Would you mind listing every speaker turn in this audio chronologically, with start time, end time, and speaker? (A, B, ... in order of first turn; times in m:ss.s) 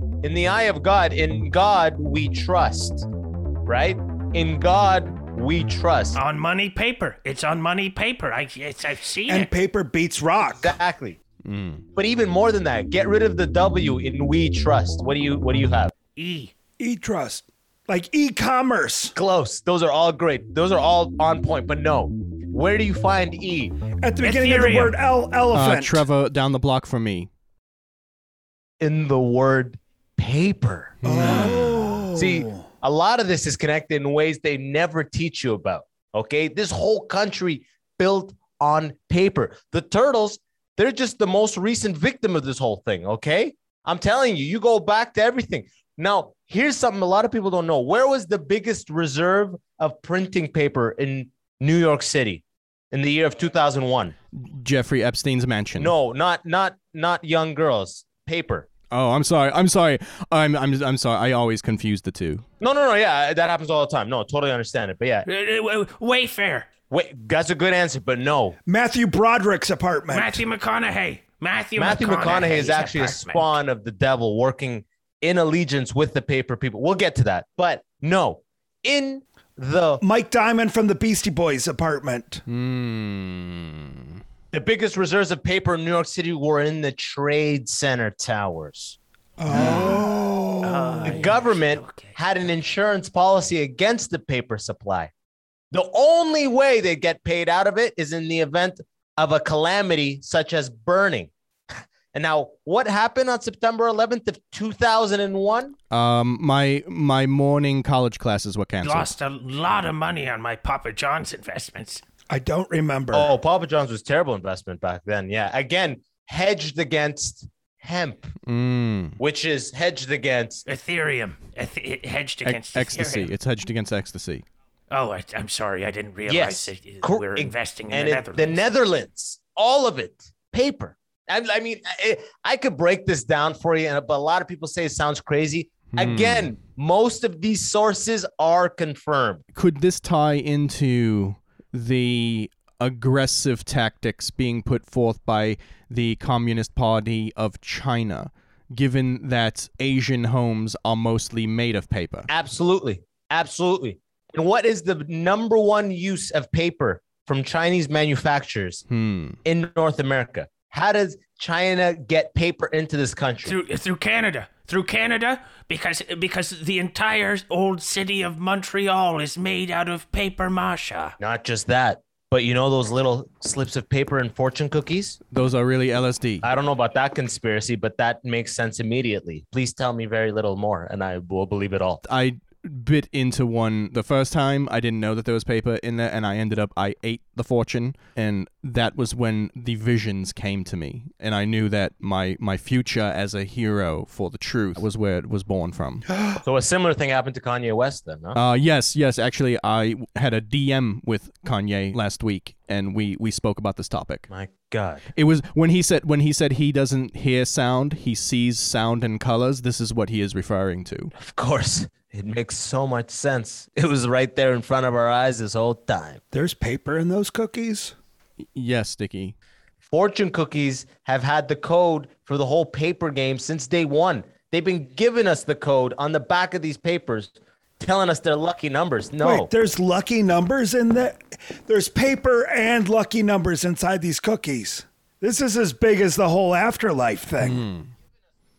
0:00.2-0:03.1 A
0:03.6-0:06.2 A
0:06.1-0:09.5 B
0:09.3-0:10.8 C
0:10.5-0:11.2 A
0:11.4-0:11.8 D
0:11.9-0:15.9 A
0:16.2-0:16.5 B
0:16.8-0:19.1 C
0:19.1-0:23.8 A
0:24.0-0:26.0 C
0:24.2-0:25.0 B
0:25.5-0:27.3 D
0:28.8-0:54.1 A
0:31.0-0:31.8 D
0:31.0-0:32.6 C
0:54.3-0:55.9 D
0:55.8-0:58.7 A
0:58.9-1:02.4 D
1:02.6-1:05.3 A
1:05.3-1:06.7 B
1:06.9-1:08.6 A
1:08.6-1:10.4 C
1:10.1-1:13.5 B
1:11.8-1:20.0 A
1:20.0-1:22.4 C
1:22.5-1:24.2 D
1:24.5-1:29.0 A
1:29.4-1:31.3 C
1:29.6-1:30.0 B
1:29.6-1:29.9 A
1:30.6-1:32.1 B
1:31.0-1:35.1 A
1:35.7-1:41.3 A
1:42.1-1:45.8 A
1:45.9-1:49.1 D
1:48.8-1:52.0 B
1:52.3-1:53.3 C
1:53.1-1:58.3 A
1:58.5-1:59.2 D
1:59.2-2:00.6 A
2:00.7-2:03.3 B
2:02.4-2:04.4 D
2:04.9-2:08.6 B
2:06.3-2:19.4 A
2:15.9-2:16.5 D
2:19.5-2:32.3 D
2:32.3-2:38.8 A
2:38.9-2:39.4 D
2:39.4-2:43.6 A
2:43.4-2:51.1 B
2:51.2-2:55.2 A
2:55.3-2:56.5 D
2:56.4-3:02.0 A
3:02.0-3:16.1 D
3:16.4-3:18.4 A
3:18.3-3:24.3 D
3:24.3-3:25.1 A
3:25.1-3:31.1 D
3:31.2-3:36.2 A
3:36.3-3:38.0 C
3:38.5-3:39.3 D
3:39.9-3:49.5 A
3:49.2-3:57.6 C
3:57.4-3:57.9 D